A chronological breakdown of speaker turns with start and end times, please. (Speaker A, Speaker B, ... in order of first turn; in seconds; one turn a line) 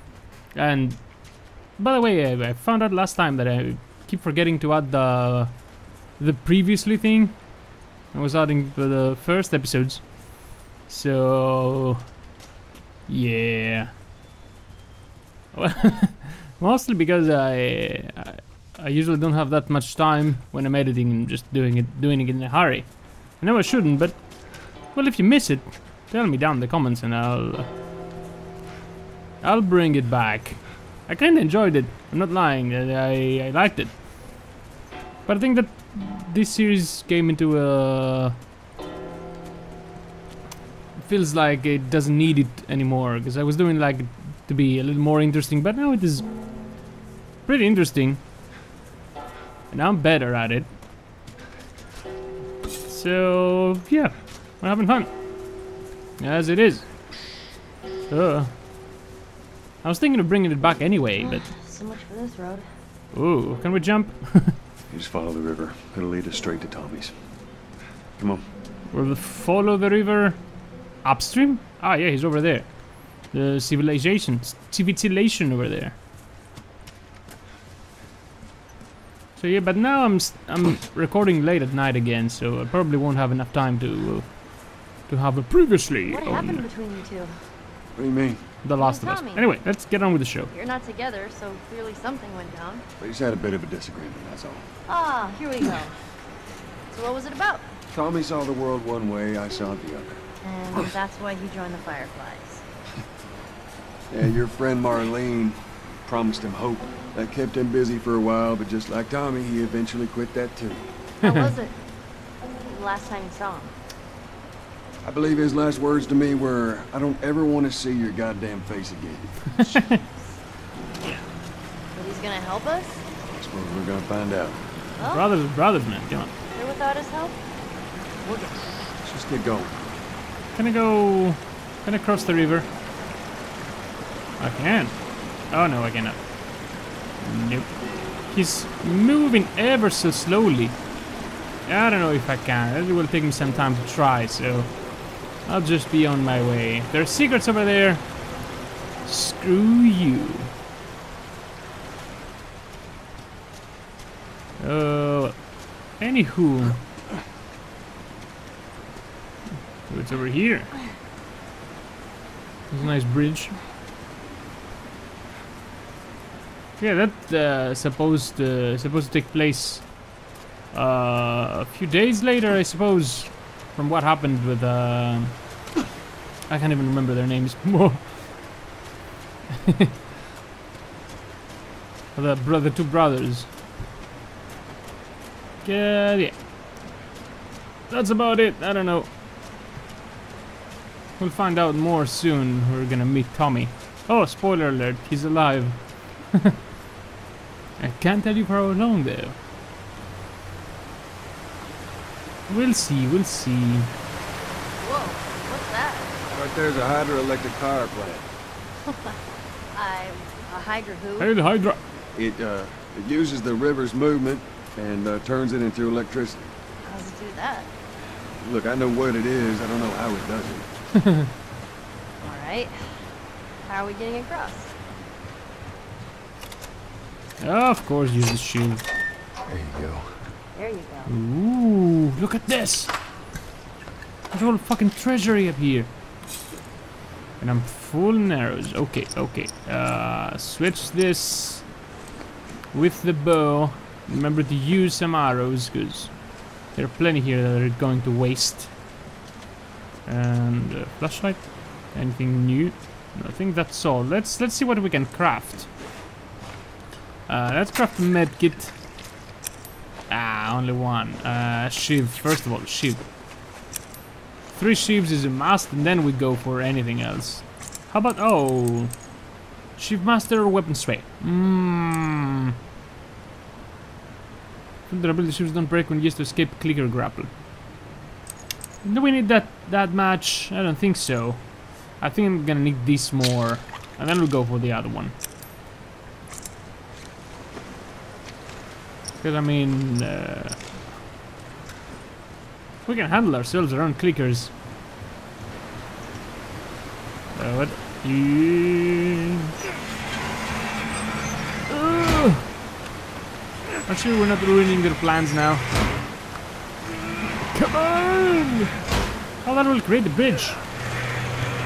Speaker A: 0.5-7.5
Speaker A: 8.1-10.2
Speaker A: 10.9-12.0
Speaker A: 13.1-13.9
Speaker A: 15.5-27.7
Speaker A: 29.4-33.9
Speaker A: 35.3-38.4
Speaker A: 41.0-46.3
Speaker A: 47.5-48.2
Speaker A: 49.7-50.7
Speaker A: 52.9-55.1
Speaker A: 56.2-57.1
Speaker A: 58.1-58.5
Speaker A: 59.8-61.5
Speaker B: 61.2-62.7
Speaker A: 63.1-64.6
Speaker C: 64.9-67.2
Speaker C: 68.2-68.5
Speaker A: 68.9-70.4
Speaker A: 71.0-76.0
Speaker A: 79.4-86.7
Speaker B: 86.1-87.5
Speaker C: 88.0-88.4
Speaker A: 88.6-90.5
Speaker B: 88.8-89.5
Speaker B: 90.5-92.8
Speaker C: 93.0-94.7
Speaker B: 94.9-96.0
Speaker B: 96.9-97.6
Speaker C: 97.9-100.2
Speaker B: 100.4-102.6
Speaker C: 104.1-110.9
Speaker A: 111.2-111.5
Speaker B: 111.2-111.8
Speaker B: 112.7-113.8
Speaker C: 115.0-119.4
Speaker A: 119.6-120.0
Speaker B: 121.9-123.0
Speaker C: 123.3-124.7
Speaker B: 125.0-125.3
Speaker A: 125.0-126.3
Speaker B: 126.5-127.4
Speaker C: 128.2-129.8
Speaker A: 130.6-132.7
Speaker A: 134.4-135.0
Speaker A: 135.5-136.2
Speaker A: 137.2-140.8
Speaker A: 141.7-148.2
Speaker A: 149.0-150.5
Speaker A: 154.6-156.8
Speaker A: 159.9-160.8
Speaker A: 162.7-163.6
Speaker A: 166.8-170.1
Speaker A: 170.7-175.4
Speaker A: 176.5-178.2
Speaker A: 182.2-183.5
Speaker A: 185.6-186.4
Speaker A: 187.9-189.1
Speaker A: 191.2-196.5
Speaker A: 197.8-199.4
Speaker A: 202.5-203.9
Speaker B: 204.8-206.1
Speaker C: 206.3-208.3
Speaker B: 209.7-211.3
Speaker A: 211.2-211.8
Speaker C: 212.1-216.5
Speaker B: 216.8-217.7
Speaker C: 218.4-220.7
Speaker B: 222.2-223.1
Speaker B: 223.7-224.7
Speaker A: 227.4-228.8
Speaker C: 229.5-230.2
Speaker B: 230.5-231.1
Speaker A: 231.1-232.9
Speaker A: 234.3-235.9
Speaker A: 237.4-241.7
Speaker A: 242.7-248.7
Speaker A: 250.1-255.7
Speaker A: 257.3-258.8
Speaker A: 260.1-263.0
Speaker A: 264.6-269.0
Speaker A: 269.8-272.4
Speaker A: 274.9-277.3
Speaker A: 278.8-285.1
Speaker A: 289.2-290.6
Speaker A: 292.8-294.5
Speaker A: 297.4-299.1
Speaker A: 301.7-302.4
Speaker A: 303.9-305.7
Speaker A: 307.5-308.7
Speaker A: 309.4-310.6